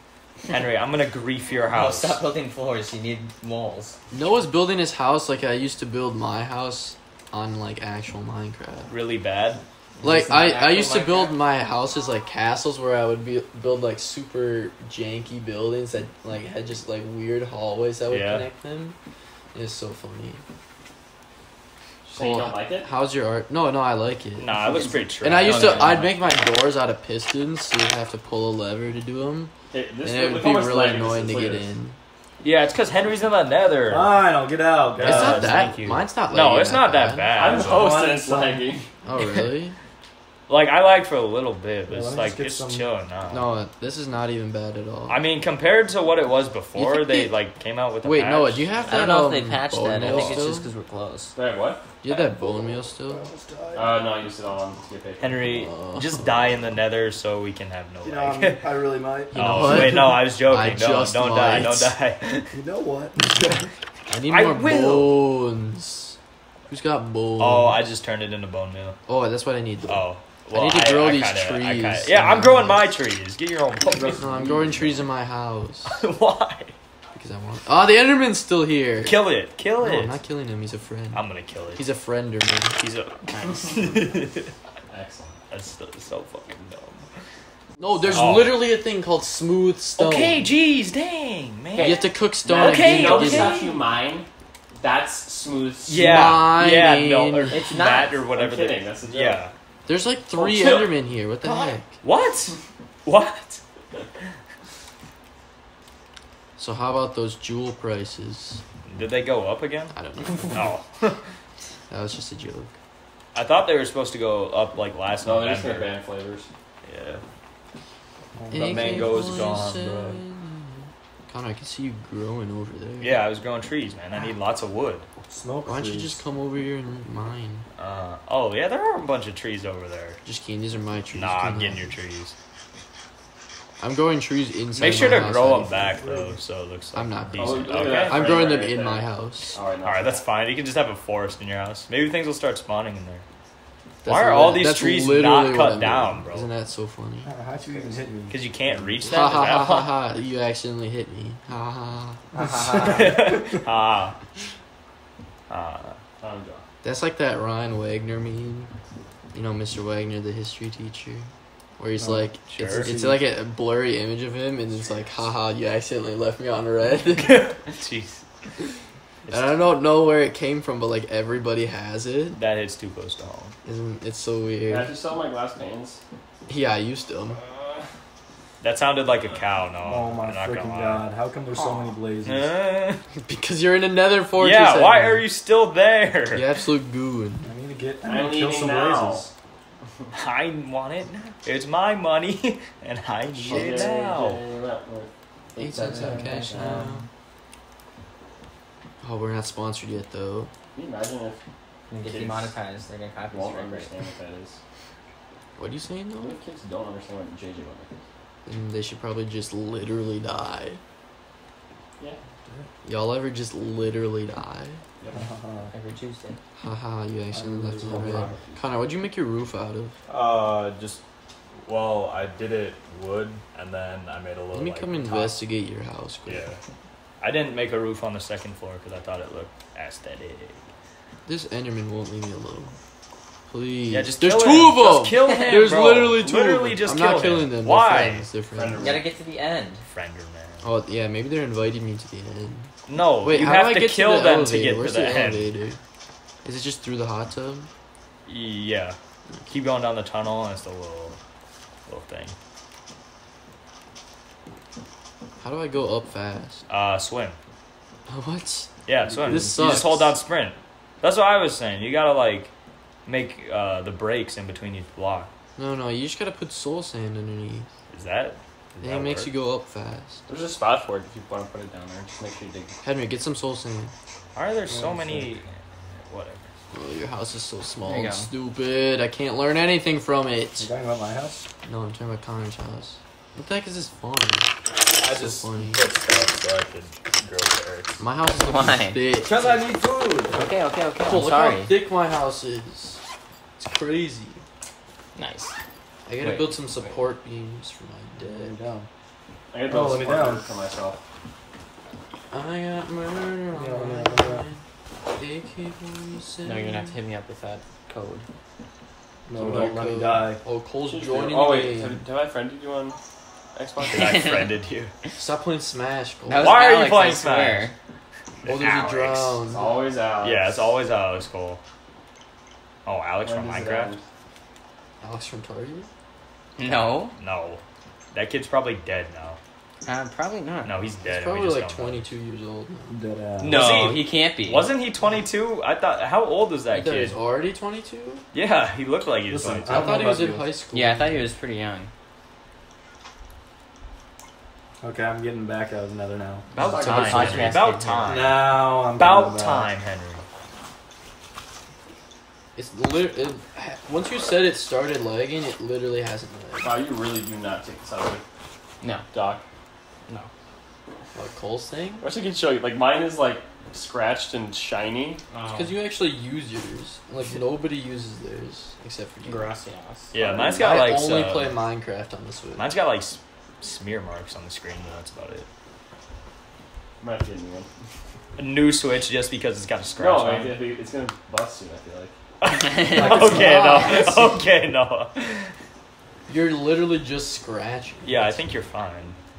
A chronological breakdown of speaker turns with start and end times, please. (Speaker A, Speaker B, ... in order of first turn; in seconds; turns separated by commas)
Speaker A: 0.5-2.2, Speaker B: 1.7-4.0, Speaker C: 4.1-8.9, Speaker A: 8.9-11.3, Speaker B: 10.0-10.4, Speaker C: 10.0-18.9, Speaker A: 18.1-18.5, Speaker C: 19.5-20.4, Speaker D: 22.0-22.9, Speaker C: 22.1-32.0, Speaker A: 24.4-26.2, Speaker E: 25.4-26.0, Speaker D: 29.7-31.7, Speaker A: 32.4-34.2, Speaker E: 33.9-35.5, Speaker A: 34.9-38.2, Speaker C: 35.0-37.3, Speaker D: 37.3-38.9, Speaker E: 37.4-38.7, Speaker C: 39.0-39.8, Speaker A: 40.5-43.5, Speaker E: 41.9-42.9, Speaker C: 43.3-45.2, Speaker A: 45.1-48.7, Speaker C: 46.7-47.3, Speaker C: 48.0-50.7, Speaker B: 48.9-51.3, Speaker A: 50.0-50.4, Speaker D: 51.3-51.9, Speaker C: 52.0-53.3, Speaker E: 52.4-54.2, Speaker D: 53.7-55.5, Speaker A: 55.2-58.6, Speaker C: 55.5-56.6, Speaker E: 58.0-60.1, Speaker C: 59.3-61.9, Speaker A: 59.3-62.5, Speaker E: 62.5-63.7, Speaker C: 64.1-66.2, Speaker A: 64.3-65.2, Speaker C: 66.7-67.8, Speaker A: 67.4-69.0, Speaker C: 69.1-72.9, Speaker A: 69.9-74.2, Speaker C: 73.9-76.0, Speaker E: 74.0-75.0, Speaker A: 76.0-76.7, Speaker C: 77.1-79.2, Speaker A: 79.0-80.2, Speaker C: 79.8-82.8, Speaker A: 81.1-81.8, Speaker A: 82.8-84.5, Speaker D: 84.9-85.4, Speaker A: 85.5-87.0, Speaker C: 87.8-90.5, Speaker A: 88.1-88.6, Speaker A: 90.0-93.8, Speaker D: 91.7-96.4, Speaker C: 91.8-93.7, Speaker A: 95.8-99.5, Speaker C: 95.9-97.6, Speaker B: 97.5-98.1, Speaker D: 97.6-99.4, Speaker C: 99.8-101.9, Speaker D: 100.3-101.0, Speaker A: 101.4-103.6, Speaker C: 106.6-108.6, Speaker A: 108.8-109.9, Speaker C: 109.9-110.7, Speaker A: 110.5-111.2, Speaker C: 111.9-112.7, Speaker A: 113.3-116.0, Speaker D: 115.2-116.5, Speaker A: 116.8-117.2, Speaker E: 118.3-120.2, Speaker C: 118.5-123.2, Speaker A: 118.5-119.9, Speaker A: 123.0-125.1, Speaker E: 125.3-126.2, Speaker C: 125.6-127.7, Speaker A: 127.8-130.2, Speaker C: 130.2-131.9, Speaker A: 131.1-132.3, Speaker C: 133.8-136.0, Speaker A: 134.8-138.6, Speaker E: 135.4-136.4, Speaker C: 136.9-139.6, Speaker D: 137.3-140.2, Speaker A: 139.8-143.2, Speaker C: 144.0-147.3, Speaker A: 144.0-146.5, Speaker E: 147.2-149.5, Speaker A: 147.9-150.0, Speaker C: 149.1-152.2, Speaker B: 152.3-153.1, Speaker E: 152.4-153.6, Speaker A: 152.7-154.2, Speaker A: 155.5-156.0, Speaker D: 156.2-156.6, Speaker C: 156.8-158.7, Speaker C: 159.3-167.5, Speaker E: 162.0-163.2, Speaker A: 162.5-162.9, Speaker A: 167.1-168.2, Speaker A: 169.3-169.7, Speaker C: 169.3-172.4, Speaker A: 172.3-173.6, Speaker C: 173.6-174.9, Speaker D: 174.7-176.0, Speaker C: 176.5-177.4, Speaker D: 177.3-177.8, Speaker A: 178.6-181.1, Speaker E: 179.8-182.6, Speaker D: 181.6-181.9, Speaker A: 182.2-183.0, Speaker C: 183.2-185.2, Speaker A: 184.4-186.4, Speaker C: 186.3-187.5, Speaker E: 187.4-189.3, Speaker D: 188.0-189.3, Speaker A: 190.1-194.4, Speaker D: 193.4-196.9, Speaker C: 195.6-197.1, Speaker E: 195.7-197.1, Speaker C: 199.0-200.5, Speaker D: 200.7-201.4, Speaker B: 201.9-203.9, Speaker D: 202.0-202.5, Speaker D: 203.3-204.6, Speaker C: 205.6-206.4, Speaker D: 206.2-207.9, Speaker C: 208.4-210.8, Speaker E: 212.4-212.7, Speaker C: 212.8-214.8, Speaker D: 215.0-215.2, Speaker E: 215.1-215.7, Speaker B: 215.7-216.4, Speaker C: 216.6-219.9, Speaker E: 217.3-218.4, Speaker D: 218.1-218.6, Speaker A: 220.1-221.0, Speaker A: 221.6-225.3, Speaker C: 224.5-226.4, Speaker A: 226.3-226.6, Speaker A: 227.2-230.6, Speaker C: 231.2-232.7, Speaker C: 233.5-238.9, Speaker A: 233.9-238.3, Speaker D: 238.5-239.1, Speaker B: 238.8-239.8, Speaker A: 239.9-240.6, Speaker C: 240.6-245.8, Speaker A: 242.9-245.5, Speaker C: 246.4-247.7, Speaker A: 248.2-251.2, Speaker A: 251.9-252.3, Speaker C: 255.4-256.6, Speaker A: 256.7-257.4, Speaker C: 258.1-260.1, Speaker A: 258.9-262.5, Speaker E: 259.0-259.7, Speaker A: 263.1-265.3, Speaker C: 265.6-267.7, Speaker A: 267.9-269.3, Speaker C: 268.8-270.2, Speaker D: 270.3-272.8, Speaker C: 272.8-273.9, Speaker A: 274.3-276.5, Speaker E: 274.7-275.3, Speaker C: 276.7-280.7, Speaker B: 277.8-278.3, Speaker E: 280.6-281.5, Speaker C: 281.6-285.8, Speaker A: 284.8-288.0, Speaker C: 288.0-289.6, Speaker B: 288.3-289.0, Speaker A: 289.2-290.4, Speaker B: 290.3-291.7, Speaker C: 291.0-293.0, Speaker C: 293.6-294.4, Speaker B: 295.1-295.5, Speaker C: 296.1-298.5, Speaker B: 296.2-296.9, Speaker E: 298.2-298.9, Speaker D: 299.5-301.0, Speaker E: 299.7-300.4, Speaker C: 302.3-304.6, Speaker E: 303.5-304.4, Speaker C: 305.1-306.9, Speaker B: 306.4-308.2, Speaker E: 309.2-310.4, Speaker C: 309.3-312.1, Speaker D: 310.8-312.9, Speaker D: 313.5-314.3, Speaker A: 313.9-314.9, Speaker B: 313.9-314.5, Speaker C: 315.1-316.6, Speaker B: 316.3-317.7, Speaker A: 316.4-317.7, Speaker A: 318.4-319.4, Speaker C: 318.4-319.8, Speaker D: 319.5-320.6, Speaker A: 320.2-321.6, Speaker A: 322.8-323.9, Speaker D: 323.2-324.0, Speaker C: 325.0-325.9, Speaker B: 326.6-327.1, Speaker A: 327.2-327.6, Speaker A: 328.1-329.4, Speaker B: 329.8-330.8, Speaker A: 330.6-332.1, Speaker C: 331.0-332.9, Speaker E: 332.9-333.7, Speaker A: 333.4-337.2, Speaker B: 333.4-334.7, Speaker C: 336.7-338.2, Speaker A: 338.3-340.0, Speaker E: 339.3-340.6, Speaker C: 339.7-341.2, Speaker B: 340.7-341.9, Speaker E: 344.8-346.5, Speaker A: 346.5-350.2, Speaker D: 346.6-347.6, Speaker B: 346.6-348.3, Speaker C: 346.8-347.2, Speaker E: 348.0-349.7, Speaker C: 352.6-356.8, Speaker D: 356.6-358.2, Speaker B: 358.8-359.1, Speaker D: 359.1-359.4, Speaker C: 361.1-362.1, Speaker D: 362.0-365.2, Speaker B: 365.3-365.7, Speaker C: 365.5-369.5, Speaker B: 369.2-370.1, Speaker A: 370.1-371.6, Speaker D: 370.2-370.7, Speaker C: 370.6-372.6, Speaker A: 372.6-375.5, Speaker D: 377.0-377.7, Speaker A: 378.4-380.6, Speaker D: 380.0-382.1, Speaker A: 382.4-385.5, Speaker E: 382.9-383.8, Speaker C: 382.9-384.4, Speaker C: 386.3-388.4, Speaker A: 388.0-389.2